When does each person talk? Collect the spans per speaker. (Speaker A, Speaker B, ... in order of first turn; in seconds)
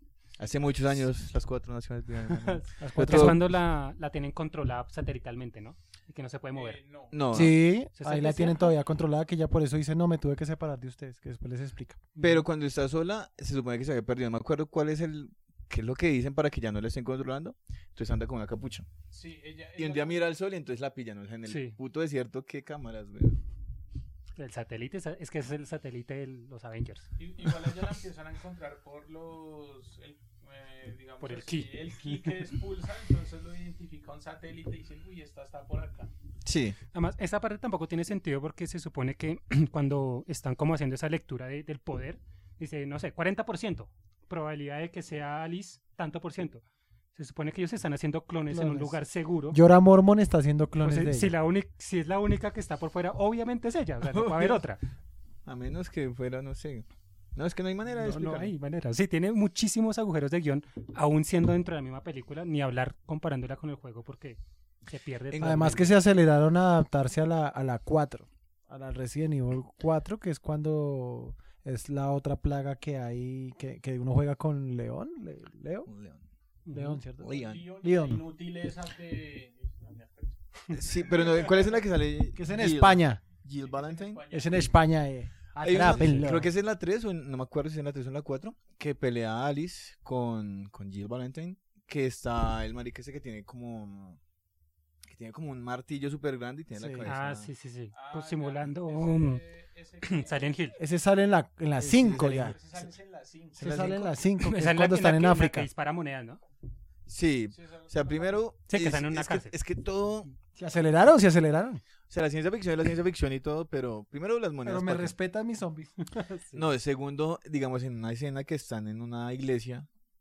Speaker A: 0.4-3.4, 7.1-7.6, 12.2-18.9, 19.8-23.4, 36.4-36.8, 54.0-54.6, 55.5-58.5, 65.3-65.8, 75.9-76.2, 77.2-77.7, 80.7-84.2, 85.6-94.2, 95.0-97.5, 101.8-102.6, 103.6-104.1, 107.1-110.3, 112.1-115.2, 116.5-119.9
Speaker B: 0.4-0.8, 6.5-7.2, 19.1-20.3, 27.2-36.1, 77.2-81.9, 83.5-84.7, 97.9-100.7, 102.1-103.9, 107.5-108.4
Speaker C: 2.3-6.8, 8.0-8.8, 12.2-12.4, 21.5-21.8, 24.4-27.1, 31.2-32.4, 36.9-49.6, 50.8-54.8, 58.0-66.0, 76.7-77.0, 97.0-99.4, 100.0-100.8, 104.4-106.4, 108.7-109.6, 116.1-116.7
Speaker D: 2.8-3.4, 7.3-12.1, 48.5-49.0, 49.5-51.3, 65.3-75.9, 76.7-78.2, 82.3-83.2, 84.3-86.5, 96.7-97.1, 100.8-102.6, 103.6-105.7, 110.6-111.8, 114.6-116.1